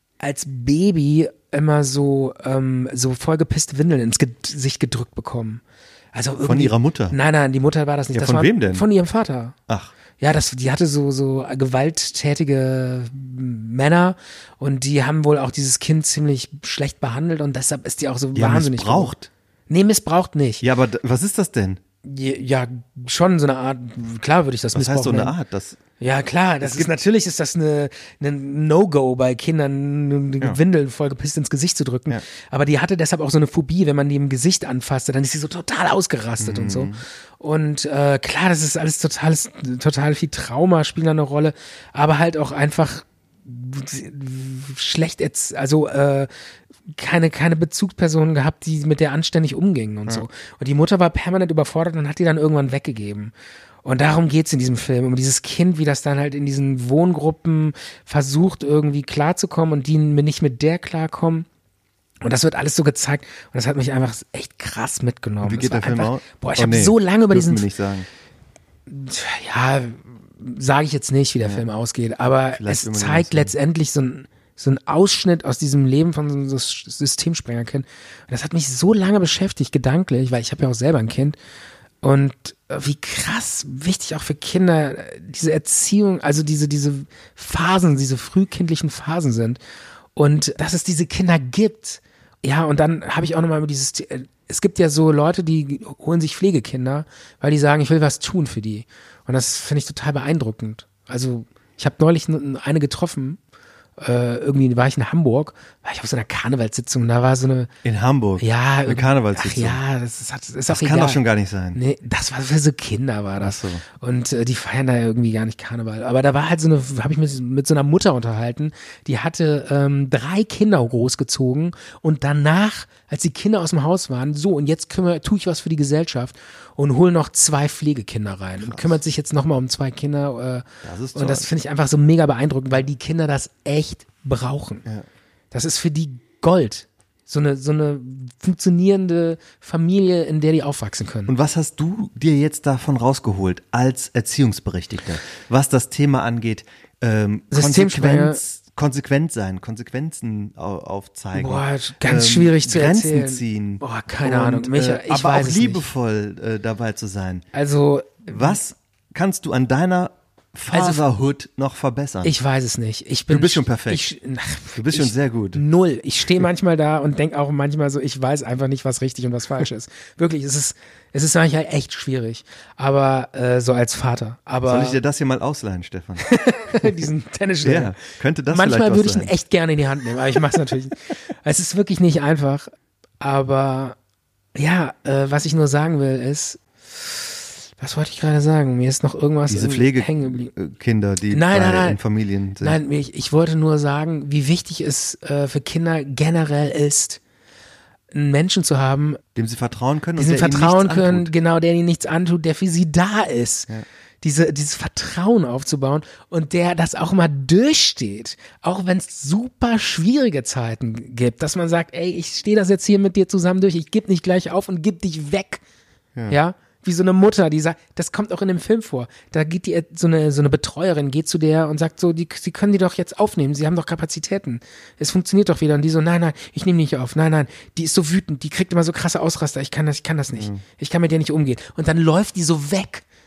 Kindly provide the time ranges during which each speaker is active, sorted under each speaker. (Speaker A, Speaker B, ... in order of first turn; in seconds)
Speaker A: 0.2-5.6, 6.1-9.5, 10.2-19.1, 19.7-20.6, 22.0-25.3, 26.0-46.3, 46.9-53.3, 53.8-61.5, 62.2-67.7, 68.9-81.4, 82.0-89.6, 90.1-103.4, 104.0-107.7, 108.4-111.2, 111.7-134.8, 135.5-141.3, 147.5-148.4, 151.3-155.8, 157.5-158.6, 160.7-161.0, 162.2-175.0, 176.2-178.0, 178.5-183.9, 184.5-190.5, 191.3-192.0, 192.6-197.2, 198.1-199.2, 200.2-203.7, 204.2-215.6, 216.3-233.0
Speaker B: 6.4-7.2, 8.1-8.9, 18.3-19.3, 20.6-21.8, 24.7-25.8, 26.6-26.9, 36.4-37.0, 65.4-68.1, 71.4-71.7, 72.5-73.5, 107.8-109.8, 110.7-111.8, 113.4-113.8, 128.6-129.0, 130.8-131.5, 141.3-157.5, 158.3-162.3, 163.3-164.1, 164.8-165.6, 174.6-176.9, 177.6-179.3, 189.5-192.8, 199.3-201.3, 230.3-230.6